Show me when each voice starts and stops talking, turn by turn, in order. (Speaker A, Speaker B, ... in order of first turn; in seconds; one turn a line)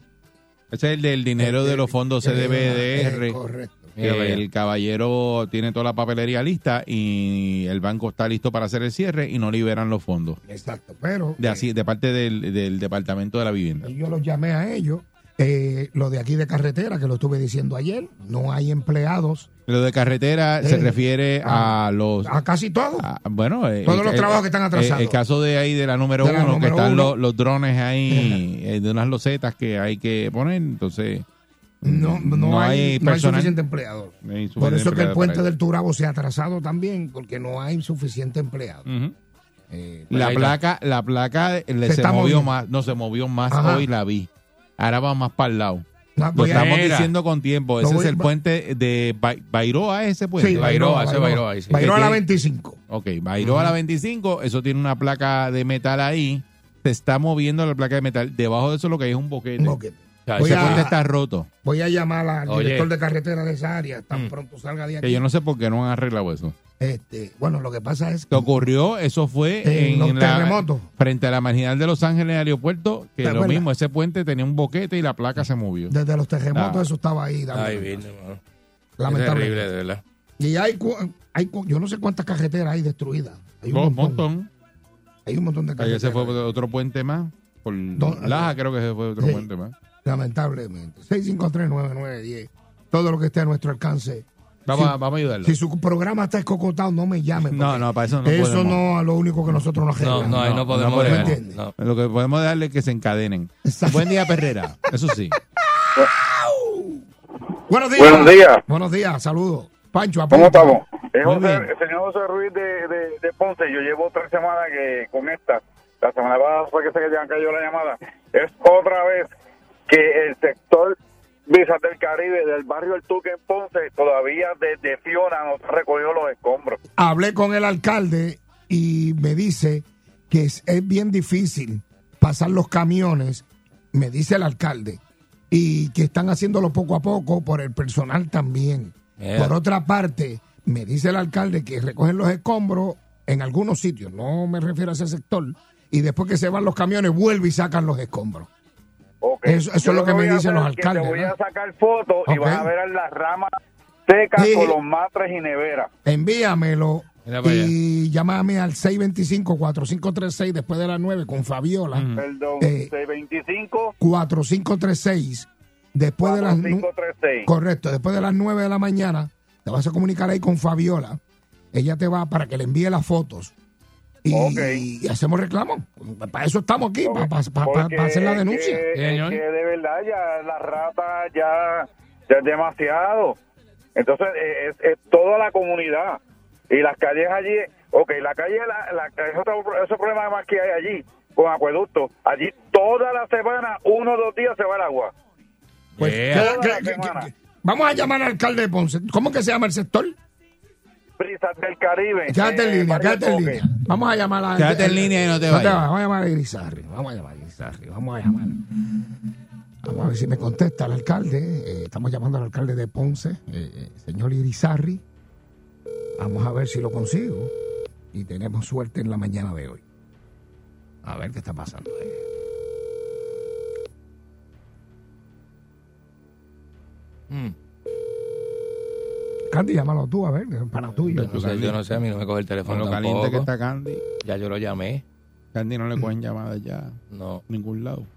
Speaker A: 0.7-3.4
Speaker B: 1.4-3.9
Speaker C: 4.0-4.4
Speaker A: 4.0-10.4
Speaker B: 10.5-11.7
Speaker A: 11.4-13.9
Speaker B: 13.8-19.5
Speaker A: 19.7-22.3
Speaker B: 20.6-23.1
Speaker A: 23.0-31.3
Speaker B: 23.9-25.2
Speaker B: 26.2-27.1
Speaker B: 28.1-28.4
Speaker A: 31.8-33.6
Speaker B: 31.8-38.9
Speaker A: 34.2-35.4
Speaker A: 38.9-39.1
Speaker B: 39.7-40.1
Speaker A: 40.1-50.7
Speaker C: 40.1-40.6
Speaker B: 41.9-42.5
Speaker B: 43.5-43.9
Speaker B: 46.2-46.8
Speaker C: 46.5-47.1
Speaker B: 47.8-48.3
Speaker B: 50.4-52.8
Speaker C: 50.5-51.9
Speaker A: 51.8-52.2
Speaker A: 52.9-59.8
Speaker C: 53.4-53.8
Speaker B: 59.6-61.0
Speaker C: 60.3-60.9
Speaker A: 60.4-61.5
Speaker B: 61.6-65.2
Speaker C: 62.5-62.9
Speaker A: 65.0-66.6
Speaker B: 66.8-68.5
Speaker A: 68.3-75.9
Speaker B: 69.6-70.9
Speaker B: 73.2-73.7
Speaker B: 75.9-77.9
Speaker A: 76.5-76.9
Speaker C: 77.5-78.4
Speaker B: 79.0-79.7
Speaker C: 79.1-80.0
Speaker B: 80.4-84.2
Speaker A: 83.7-84.5
Speaker B: 85.3-86.4
Speaker A: 85.8-89.8
Speaker B: 88.0-88.5
Speaker B: 89.2-89.5
Speaker B: 90.0-101.6
Speaker A: 94.7-95.5
Speaker A: 97.5-98.8
Speaker C: 100.0-101.7
Speaker A: 100.1-105.4
Speaker B: 103.7-104.9
Speaker B: 105.6-107.0
Speaker B: 107.7-110.8
Speaker D: 108.0-108.6
Speaker D: 110.3-119.3
Speaker A: 111.2-111.7
Speaker D: 119.9-121.0
Speaker D: 121.5-126.8
Speaker B: 127.0-135.0
Speaker B: 135.5-148.5
Speaker C: 139.2-139.5
Speaker D: 149.2-153.5
Speaker B: 149.4-151.3
Speaker B: 152.3-152.7
Speaker D: 154.1-155.9
Speaker B: 154.4-154.8
Speaker B: 156.1-162.1
Speaker C: 157.3-157.7
Speaker A: 161.9-162.2
Speaker D: 162.2-163.9
Speaker B: 162.6-162.9
Speaker B: 164.0-166.9
Speaker D: 166.2-167.5
Speaker B: 167.4-171.2
Speaker B: 171.7-173.5
Speaker B: 174.2-178.8
Speaker D: 174.3-174.8
Speaker D: 177.1-183.4
Speaker C: 178.9-179.4
Speaker D: 183.9-186.2
Speaker D: 186.7-195.1
Speaker C: 196.0-196.5
Speaker B: 196.0-200.2
Speaker D: 196.3-197.3
Speaker D: 201.2-203.6
Speaker B: 202.3-208.6
Speaker A: 204.6-205.8
Speaker B: 209.8-215.0
Speaker B: 216.2-217.5
Speaker B: 218.1-219.8
Speaker B: 221.0-222.2
Speaker B: 229.5-231.5
Speaker C: 231.1-233.5
Speaker A: 231.2-231.8
Speaker A: 232.7-234.0
Speaker C: 234.2-235.0
Speaker A: 235.5-238.1
Speaker C: 237.1-237.4